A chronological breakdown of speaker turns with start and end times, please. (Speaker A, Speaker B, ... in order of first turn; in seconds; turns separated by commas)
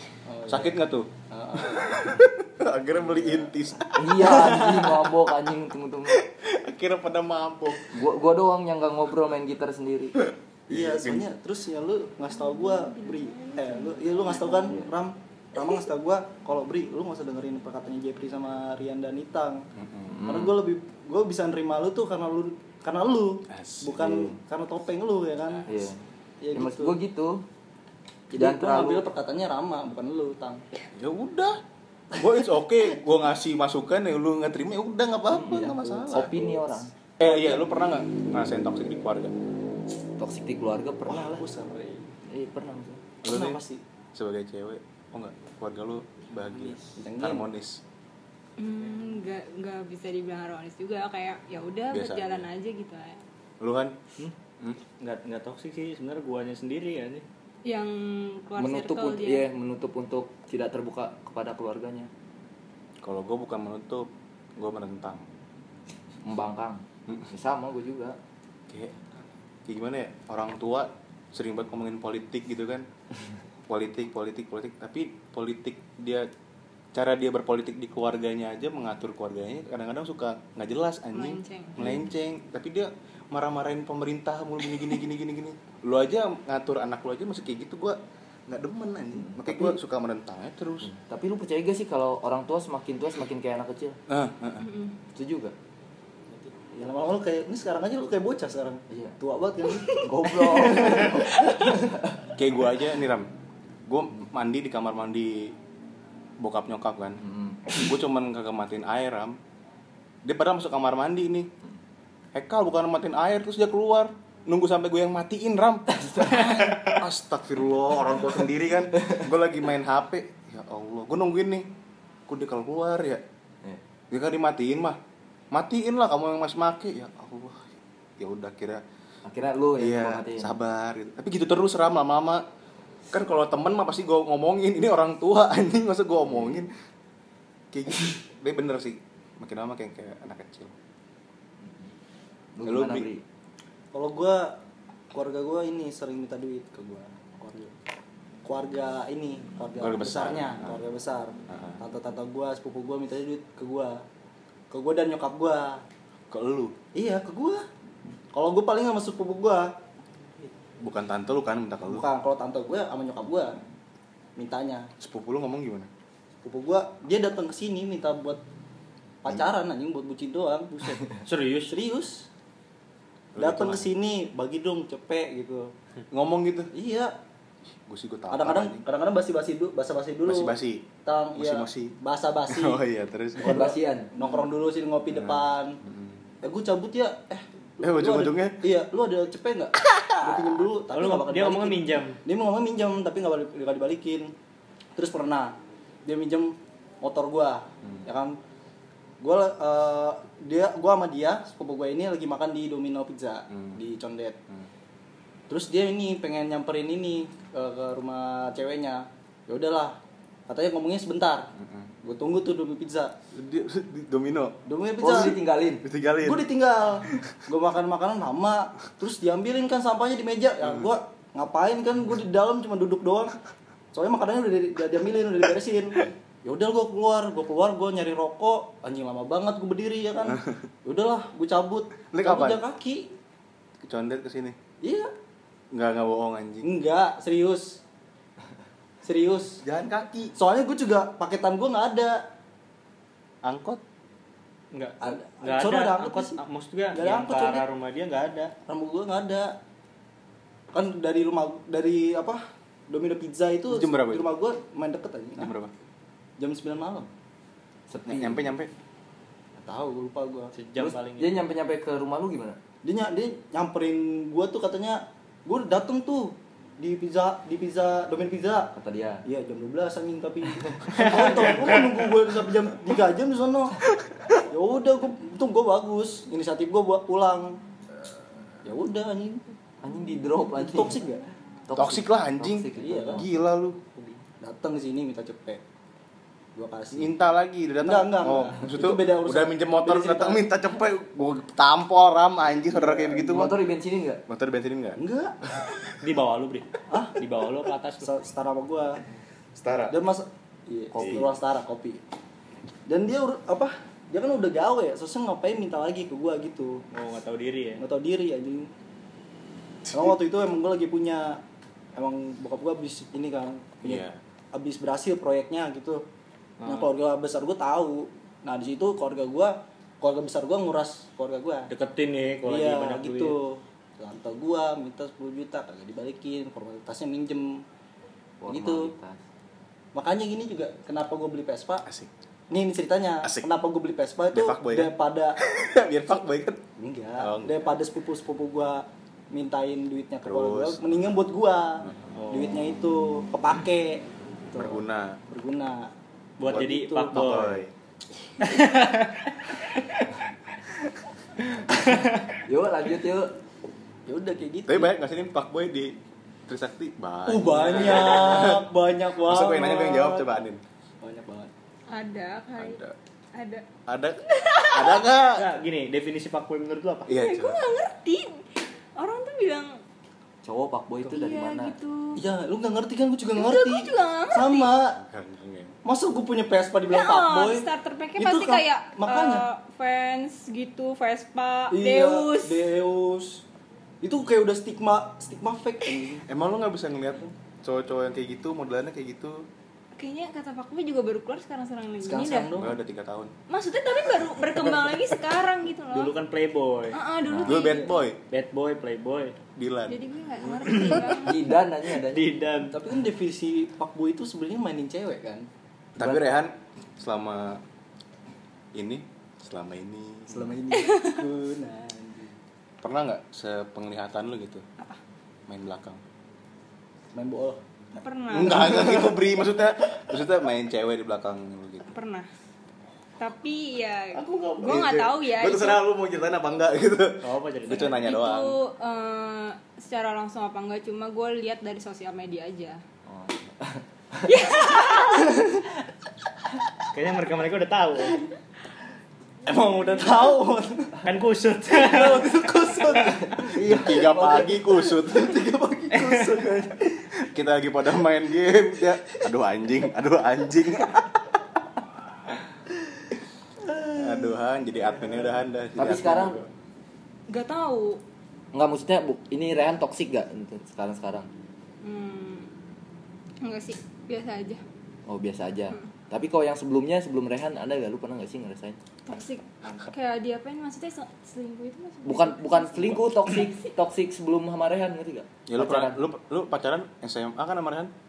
Speaker A: 0.3-0.8, Speaker B: 0.5-5.0, Speaker A: 1.3-2.2, Speaker A: 3.0-3.5, Speaker C: 3.9-6.2, Speaker A: 4.4-4.7, Speaker B: 6.1-8.0, Speaker C: 7.9-10.2, Speaker B: 10.2-11.3, Speaker A: 10.7-19.6, Speaker D: 12.3-14.8, Speaker B: 19.8-20.2, Speaker C: 20.1-20.6, Speaker A: 20.2-25.7, Speaker B: 23.5-24.4, Speaker C: 25.6-26.0, Speaker A: 26.4-26.9, Speaker C: 26.5-27.4, Speaker A: 28.3-30.6, Speaker C: 28.3-29.1, Speaker B: 30.9-31.6, Speaker B: 32.1-36.5, Speaker C: 35.3-36.9, Speaker A: 36.0-36.5, Speaker B: 37.2-39.3, Speaker A: 37.2-37.7, Speaker C: 40.2-41.4, Speaker A: 41.0-42.1, Speaker C: 42.3-43.0, Speaker B: 43.2-43.6, Speaker A: 43.2-43.8, Speaker B: 44.1-47.8, Speaker A: 46.5-47.5, Speaker D: 48.6-53.2, Speaker B: 51.9-52.5, Speaker B: 53.6-54.0, Speaker E: 55.0-57.2, Speaker D: 57.6-59.5, Speaker C: 58.6-62.1, Speaker B: 63.0-65.2, Speaker C: 66.2-68.2, Speaker B: 68.7-69.0, Speaker B: 69.7-72.8, Speaker B: 73.7-76.3, Speaker B: 76.9-90.9, Speaker D: 81.1-81.8, Speaker C: 81.8-82.1, Speaker C: 89.1-89.8, Speaker C: 90.8-94.0, Speaker B: 94.1-94.7, Speaker D: 94.6-94.9, Speaker C: 95.1-95.5, Speaker A: 96.7-101.7, Speaker C: 98.9-99.2, Speaker C: 100.0-102.3, Speaker B: 102.3-103.3, Speaker B: 103.9-105.5, Speaker B: 106.4-107.2, Speaker C: 107.2-107.7, Speaker B: 107.7-109.4, Speaker B: 110.2-111.5, Speaker B: 112.3-121.7, Speaker C: 115.9-116.9, Speaker B: 122.3-123.2, Speaker B: 124.1-125.0, Speaker B: 125.5-127.7, Speaker B: 128.2-128.8, Speaker C: 129.2-130.5, Speaker B: 129.8-132.4, Speaker B: 133.1-136.7, Speaker C: 136.2-136.6, Speaker B: 137.7-140.7, Speaker C: 141.6-141.9, Speaker C: 142.6-143.2, Speaker B: 142.6-143.1, Speaker A: 143.9-144.6, Speaker A: 145.1-147.7, Speaker A: 148.4-154.0, Speaker B: 149.8-150.8, Speaker B: 151.5-151.8, Speaker A: 154.7-155.8, Speaker B: 156.3-156.8, Speaker A: 156.9-157.6, Speaker A: 158.3-159.7, Speaker B: 160.8-162.1, Speaker A: 161.8-163.6, Speaker A: 164.4-164.9, Speaker B: 165.0-165.9, Speaker A: 166.4-168.4, Speaker A: 169.2-171.1, Speaker E: 171.1-171.8, Speaker A: 171.7-172.3, Speaker B: 173.3-173.9, Speaker A: 173.4-175.7, Speaker B: 176.1-176.7, Speaker A: 176.7-177.1, Speaker B: 177.9-178.8, Speaker A: 178.3-180.5, Speaker B: 180.3-180.8, Speaker A: 181.0-182.8, Speaker B: 181.3-181.9, Speaker B: 182.5-183.6, Speaker A: 183.4-185.8, Speaker C: 183.4-184.1, Speaker B: 185.1-186.2, Speaker A: 186.4-194.3, Speaker B: 187.8-188.6, Speaker E: 190.9-192.2, Speaker A: 194.9-198.4, Speaker A: 199.2-204.4, Speaker B: 203.5-203.8, Speaker A: 205.5-211.5, Speaker B: 211.6-211.9, Speaker A: 212.0-213.1, Speaker B: 213.3-214.6, Speaker A: 214.7-215.4, Speaker C: 215.0-215.8, Speaker B: 215.8-216.5, Speaker A: 216.2-223.3, Speaker B: 220.6-220.9, Speaker A: 223.9-233.1, Speaker B: 230.3-230.5, Speaker B: 232.1-232.6, Speaker B: 233.8-234.6, Speaker A: 234.8-235.1, Speaker B: 235.7-236.7, Speaker A: 236.6-237.8, Speaker A: 239.0-239.6, Speaker B: 239.6-240.3, Speaker A: 240.3-242.2, Speaker B: 243.4-243.8, Speaker E: 244.7-248.5, Speaker A: 245.0-246.4, Speaker A: 246.9-247.7, Speaker A: 248.7-249.6, Speaker A: 250.7-255.5, Speaker B: 253.7-254.3, Speaker B: 255.4-255.7, Speaker A: 256.4-257.1, Speaker C: 257.9-258.5, Speaker B: 258.1-258.7, Speaker A: 259.6-260.5, Speaker E: 260.5-261.4, Speaker C: 260.8-262.6, Speaker A: 262.8-268.7, Speaker C: 268.7-269.2, Speaker A: 269.2-273.8, Speaker E: 270.9-271.5, Speaker A: 274.5-277.6, Speaker A: 278.6-279.4, Speaker C: 279.8-281.0, Speaker A: 280.6-281.2, Speaker C: 281.7-283.2, Speaker B: 281.7-283.8, Speaker A: 282.8-283.3, Speaker A: 284.4-285.6, Speaker A: 286.5-287.1, Speaker B: 286.9-293.6, Speaker A: 287.8-290.4, Speaker A: 292.7-293.2, Speaker C: 293.1-294.2, Speaker B: 294.3-295.0, Speaker A: 295.0-295.4, Speaker E: 296.0-298.1, Speaker A: 296.9-297.2, Speaker A: 298.0-299.0, Speaker B: 299.6-300.0, Speaker A: 299.9-302.0, Speaker C: 300.9-301.3, Speaker B: 301.0-301.2, Speaker A: 302.9-306.8, Speaker E: 306.9-307.8, Speaker A: 307.8-308.7, Speaker A: 309.9-311.4, Speaker A: 311.9-316.0, Speaker B: 313.8-314.2, Speaker E: 316.6-316.9, Speaker A: 316.6-321.7, Speaker E: 321.7-323.3, Speaker A: 322.4-327.6, Speaker C: 328.4-329.2, Speaker A: 328.5-328.9, Speaker A: 329.9-331.8, Speaker A: 332.5-335.4, Speaker B: 333.2-333.5, Speaker B: 334.3-336.6, Speaker A: 336.8-347.6, Speaker B: 337.2-337.7, Speaker B: 340.2-341.1, Speaker E: 342.1-342.6, Speaker B: 344.5-345.2, Speaker E: 346.4-347.6, Speaker B: 346.4-347.7, Speaker E: 348.4-350.1, Speaker E: 351.8-352.4, Speaker C: 352.4-353.3, Speaker A: 354.1-354.9, Speaker B: 354.7-355.9, Speaker B: 356.5-358.7, Speaker A: 357.3-360.3, Speaker E: 357.6-358.1, Speaker B: 359.2-360.6, Speaker A: 361.0-361.5, Speaker D: 361.9-362.8, Speaker B: 362.6-362.9, Speaker D: 363.3-363.6, Speaker B: 363.9-365.5, Speaker D: 364.2-365.0, Speaker E: 365.3-367.1, Speaker B: 367.1-367.6, Speaker D: 367.1-369.8, Speaker C: 370.4-371.7, Speaker D: 371.1-372.2, Speaker A: 372.1-375.0, Speaker D: 373.3-374.7, Speaker B: 374.9-375.8, Speaker A: 375.8-379.4, Speaker D: 376.9-382.7, Speaker A: 381.7-383.4, Speaker A: 384.0-386.2, Speaker B: 386.3-389.4, Speaker D: 389.9-392.5, Speaker A: 392.0-392.7, Speaker B: 392.6-393.3, Speaker D: 393.5-396.1, Speaker E: 395.9-397.0, Speaker D: 396.9-397.9, Speaker C: 397.2-397.6, Speaker B: 397.4-398.2, Speaker E: 398.3-399.4, Speaker B: 399.6-400.0, Speaker D: 399.9-401.5, Speaker E: 400.6-401.1, Speaker C: 401.0-402.3, Speaker E: 401.9-402.8, Speaker A: 402.7-405.5, Speaker B: 406.0-407.6, Speaker B: 408.7-410.6, Speaker A: 410.3-412.3, Speaker D: 410.7-411.2, Speaker B: 412.8-414.6, Speaker B: 415.5-416.0, Speaker A: 417.1-417.6, Speaker D: 417.9-418.8, Speaker B: 418.3-421.9, Speaker A: 418.4-419.2, Speaker D: 421.9-422.3, Speaker D: 423.2-425.8, Speaker B: 424.1-428.6, Speaker E: 427.2-428.0, Speaker D: 427.9-432.8, Speaker C: 433.1-434.3, Speaker D: 434.2-435.3, Speaker E: 436.9-438.2, Speaker A: 439.4-441.0, Speaker E: 441.0-442.3, Speaker A: 441.7-447.0, Speaker E: 442.9-443.2, Speaker B: 443.5-445.4, Speaker E: 445.9-446.3, Speaker B: 447.2-451.2, Speaker A: 453.6-455.3, Speaker B: 453.9-456.5, Speaker C: 455.8-456.4, Speaker D: 457.3-458.0, Speaker C: 458.5-461.3, Speaker D: 461.8-462.5, Speaker D: 463.4-464.6, Speaker C: 465.1-468.8, Speaker D: 469.1-473.6, Speaker C: 472.0-476.0, Speaker B: 475.5-477.9